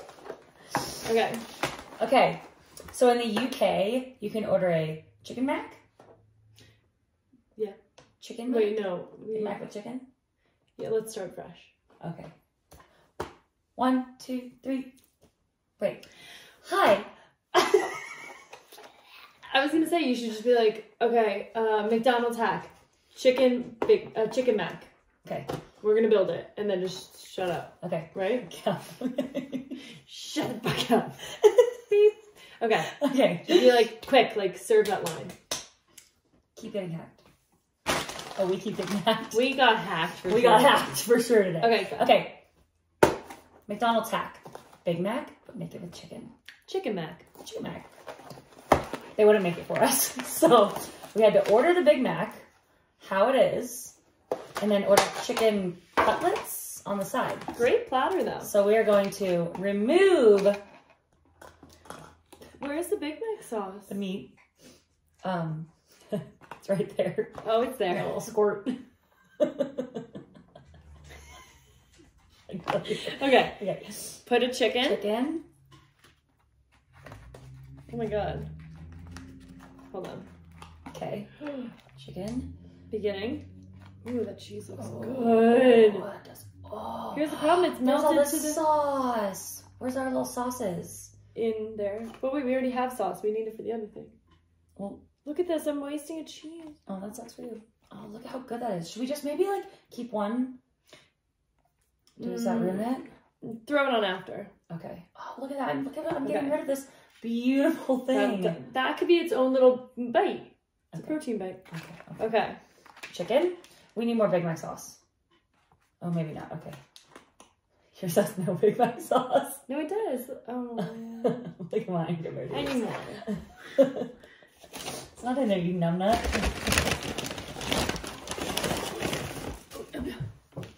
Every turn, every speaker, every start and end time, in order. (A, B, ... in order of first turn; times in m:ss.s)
0:01.0-0:01.4 A
0:02.0-0:05.8 B
0:08.2-0:10.0 B
0:08.4-0:09.6 A
0:10.8-0:11.7 A
0:12.0-0:12.3 B
0:13.8-0:14.9 B
0:15.8-0:16.0 B
0:16.6-0:17.9 B
0:19.5-0:24.9 A
0:25.2-0:25.5 B
0:25.8-0:28.5 A
0:27.8-0:29.8 B
0:30.0-0:31.2 A
0:31.4-0:31.7 B
0:31.9-0:35.3 A
0:33.0-0:33.9 B
0:36.6-0:37.2 B
0:38.4-0:39.7 B
0:39.3-0:40.9 A
0:40.3-0:42.4 B
0:41.6-0:42.1 A
0:43.7-0:46.3 B
0:46.6-0:47.2 A
0:47.4-0:47.9 B
0:49.2-0:52.4 B
0:53.0-0:54.0 B
0:54.6-0:57.5 B
0:57.5-0:58.5 A
0:58.4-1:00.6 B
1:02.6-1:04.0 A
1:03.9-1:04.3 B
1:05.2-1:08.8 B
1:07.4-1:08.3 A
1:09.4-1:10.0 B
1:12.5-1:14.2 B
1:13.0-1:13.6 A
1:14.2-1:15.0 A
1:14.8-1:15.4 B
1:17.9-1:18.5 A
1:19.9-1:20.3 A
1:20.9-1:21.3 B
1:22.0-1:22.5 B
1:22.9-1:23.5 A
1:24.0-1:26.1 A
1:24.7-1:31.1 B
1:27.1-1:28.6 A
1:31.3-1:34.2 A
1:34.8-1:35.1 B
1:35.2-1:36.8 A
1:36.8-1:40.6 B
1:42.2-1:43.1 B
1:42.2-1:42.9 A
1:43.4-1:44.5 A
1:44.7-1:48.6 B
1:46.2-1:46.6 A
1:48.1-1:51.6 A
1:50.9-1:52.3 B
1:52.2-1:52.6 A
1:53.1-1:55.0 B
1:56.0-1:56.8 B
1:57.9-1:59.6 B
1:59.7-2:01.4 A
2:01.2-2:04.1 B
2:02.5-2:03.2 A
2:05.1-2:06.6 B
2:09.7-2:10.2 A